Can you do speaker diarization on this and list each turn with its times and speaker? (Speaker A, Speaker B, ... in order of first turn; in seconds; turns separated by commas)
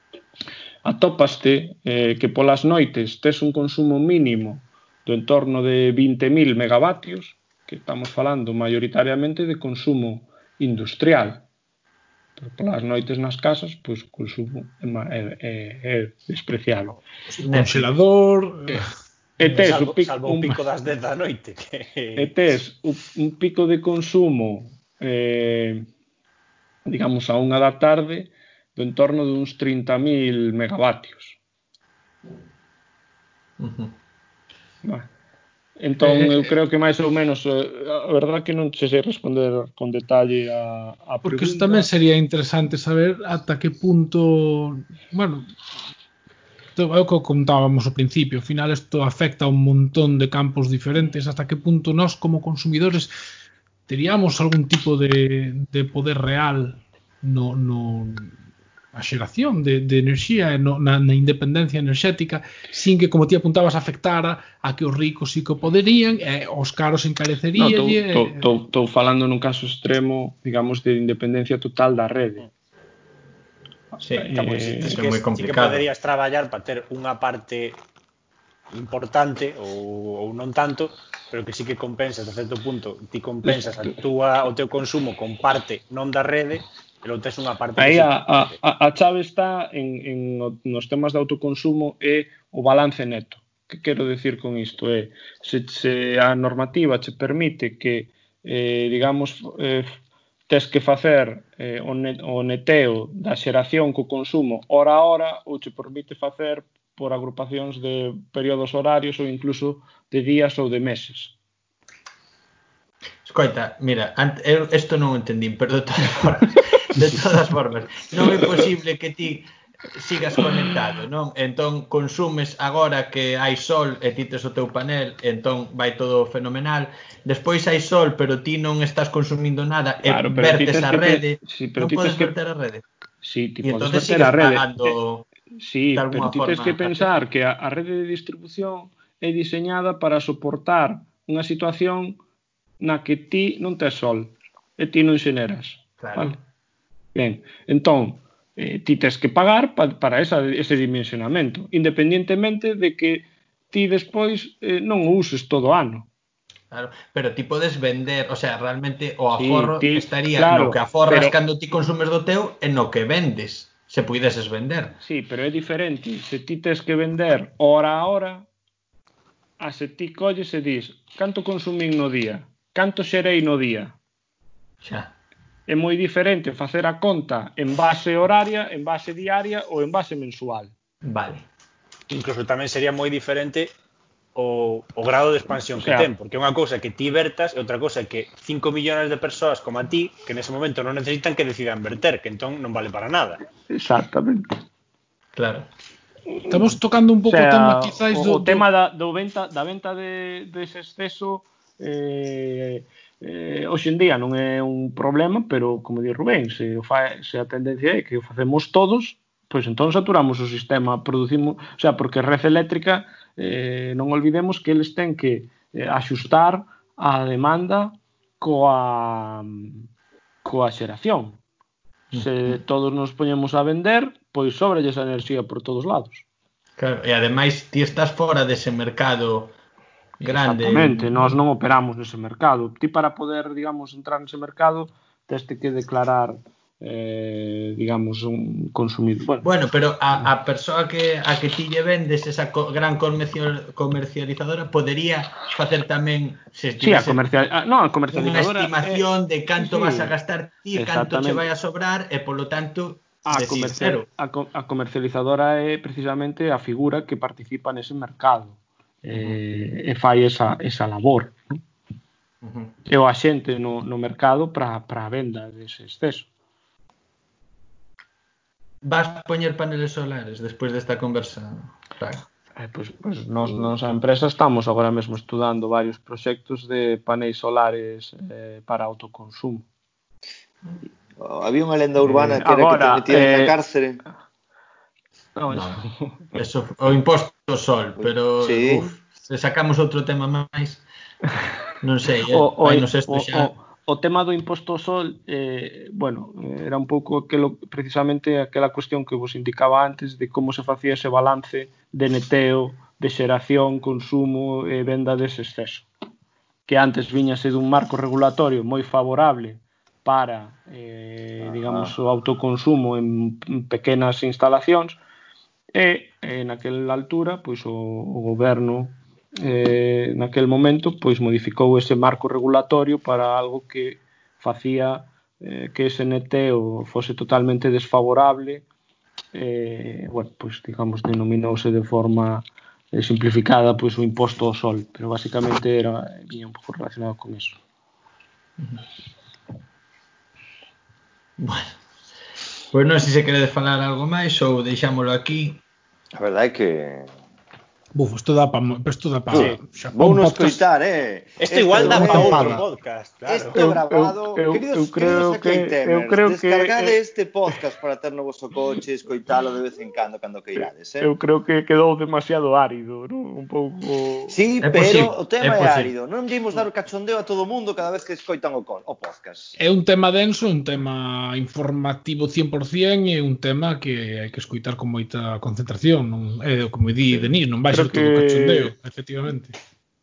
Speaker A: 0.8-11.4, Speaker A: 12.4-17.0, Speaker B: 17.3-17.9, Speaker C: 17.5-18.9, Speaker A: 19.4-20.6, Speaker D: 19.4-22.3, Speaker A: 22.1-25.9, Speaker A: 26.8-31.4, Speaker B: 33.6-33.9, Speaker A: 34.8-35.1, Speaker A: 35.8-41.9, Speaker C: 36.0-36.5, Speaker C: 41.2-45.5, Speaker C: 46.8-53.1, Speaker C: 53.9-58.3, Speaker C: 58.9-68.5, Speaker A: 67.6-72.4, Speaker B: 74.0-75.8, Speaker A: 74.1-75.0, Speaker D: 74.3-77.8, Speaker D: 78.7-88.5, Speaker A: 87.8-100.0, Speaker A: 100.5-111.3, Speaker B: 113.2-132.8, Speaker A: 130.0-132.3, Speaker A: 133.2-135.0, Speaker B: 133.6-135.3, Speaker A: 135.6-142.2, Speaker B: 135.9-137.1, Speaker A: 142.8-146.4, Speaker B: 146.0-146.4, Speaker A: 147.1-156.1, Speaker B: 156.7-165.0, Speaker A: 159.3-161.3, Speaker A: 165.0-168.4, Speaker A: 169.6-174.0, Speaker B: 174.8-175.1, Speaker A: 175.7-180.7, Speaker B: 181.0-181.4, Speaker D: 182.1-183.7, Speaker D: 184.3-193.4, Speaker A: 185.8-186.1, Speaker A: 193.7-194.6, Speaker B: 195.3-195.7, Speaker A: 196.4-196.8, Speaker C: 196.5-198.6, Speaker A: 197.3-219.8, Speaker A: 220.4-221.4, Speaker B: 222.1-222.6, Speaker A: 222.1-226.2, Speaker B: 226.8-229.6, Speaker B: 230.2-231.4, Speaker A: 230.2-239.5, Speaker B: 239.4-247.3, Speaker A: 246.8-249.0, Speaker B: 248.1-254.1, Speaker A: 249.6-250.1, Speaker A: 250.7-251.4, Speaker A: 253.2-261.6, Speaker B: 259.1-259.4, Speaker B: 262.4-262.7, Speaker A: 262.9-266.3, Speaker B: 268.8-272.2, Speaker A: 272.6-279.6, Speaker E: 281.2-284.0, Speaker A: 282.0-283.6, Speaker A: 285.4-286.3, Speaker B: 285.5-285.8, Speaker B: 286.3-290.8, Speaker E: 288.0-288.9, Speaker B: 291.8-293.5, Speaker A: 292.3-305.9, Speaker A: 306.7-315.0, Speaker E: 311.4-311.9, Speaker A: 315.7-328.6, Speaker A: 329.3-337.6, Speaker B: 341.4-341.8, Speaker B: 342.7-345.6, Speaker E: 346.1-347.1, Speaker C: 347.9-350.6, Speaker D: 349.3-349.6, Speaker E: 349.3-352.6, Speaker D: 351.4-353.6, Speaker A: 351.8-352.6, Speaker E: 353.2-361.1, Speaker A: 353.5-356.9, Speaker A: 360.6-364.4, Speaker E: 364.3-369.6, Speaker B: 364.6-365.9, Speaker C: 369.6-379.6, Speaker A: 377.7-378.7